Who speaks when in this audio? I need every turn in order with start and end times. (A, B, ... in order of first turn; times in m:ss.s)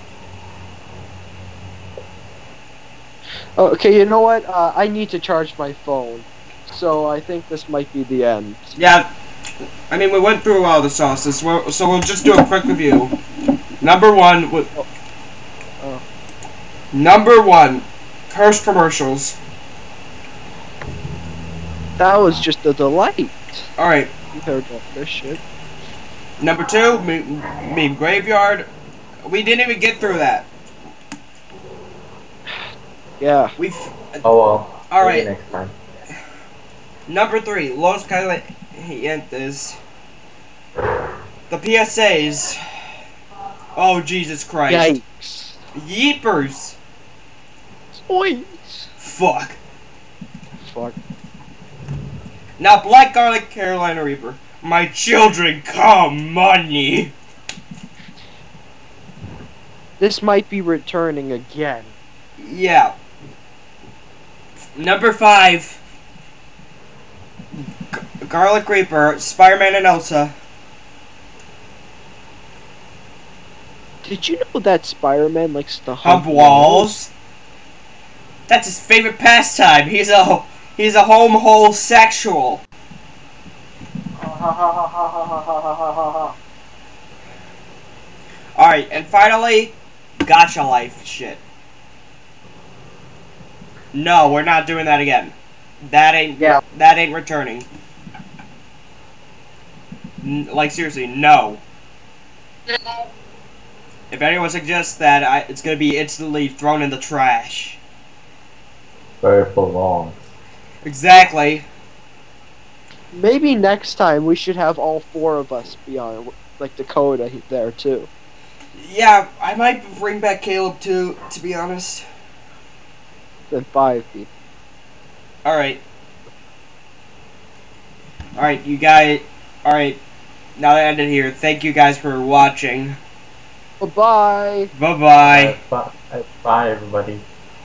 0:03.6-0:08.8 A
0:08.8-0:09.1 B
0:09.9-0:13.2 B
0:13.8-0:14.7 B
0:16.9-0:19.4 B
0:22.0-0:23.7 A
0:23.8-0:24.1 B
0:24.3-0:25.4 A
0:26.4-0:28.7 B
0:29.3-0:30.5 B
0:33.2-0:33.5 A
0:33.6-0:34.2 B
0:34.2-0:35.8 C
0:34.9-0:35.3 B
0:37.1-0:39.8 B
0:41.5-0:42.6 B
0:43.8-0:45.0 B
0:44.7-0:45.6 A
0:45.8-0:46.8 B
0:47.9-0:48.9 A
0:49.0-0:49.6 B
0:50.5-0:51.0 A
0:52.6-0:57.1 B
1:00.0-1:02.0 A
1:02.4-1:02.9 B
1:04.8-1:05.8 B
1:07.9-1:10.3 B
1:14.0-1:17.0 A
1:16.0-1:17.1 B
1:18.5-1:22.6 B
1:24.2-1:26.4 A
1:28.6-1:31.4 B
1:33.9-1:37.7 B
1:40.2-1:41.6 B
1:42.7-1:43.1 A
1:44.1-1:47.8 B
1:49.2-1:50.3 C
1:50.8-1:51.6 B
1:53.1-1:58.1 A
1:58.8-2:02.0 B
2:03.5-2:04.3 A
2:05.4-2:05.8 B
2:08.4-2:10.0 B
2:10.6-2:13.0 B
2:13.8-2:14.7 A
2:14.7-2:15.6 B
2:15.2-2:17.2 C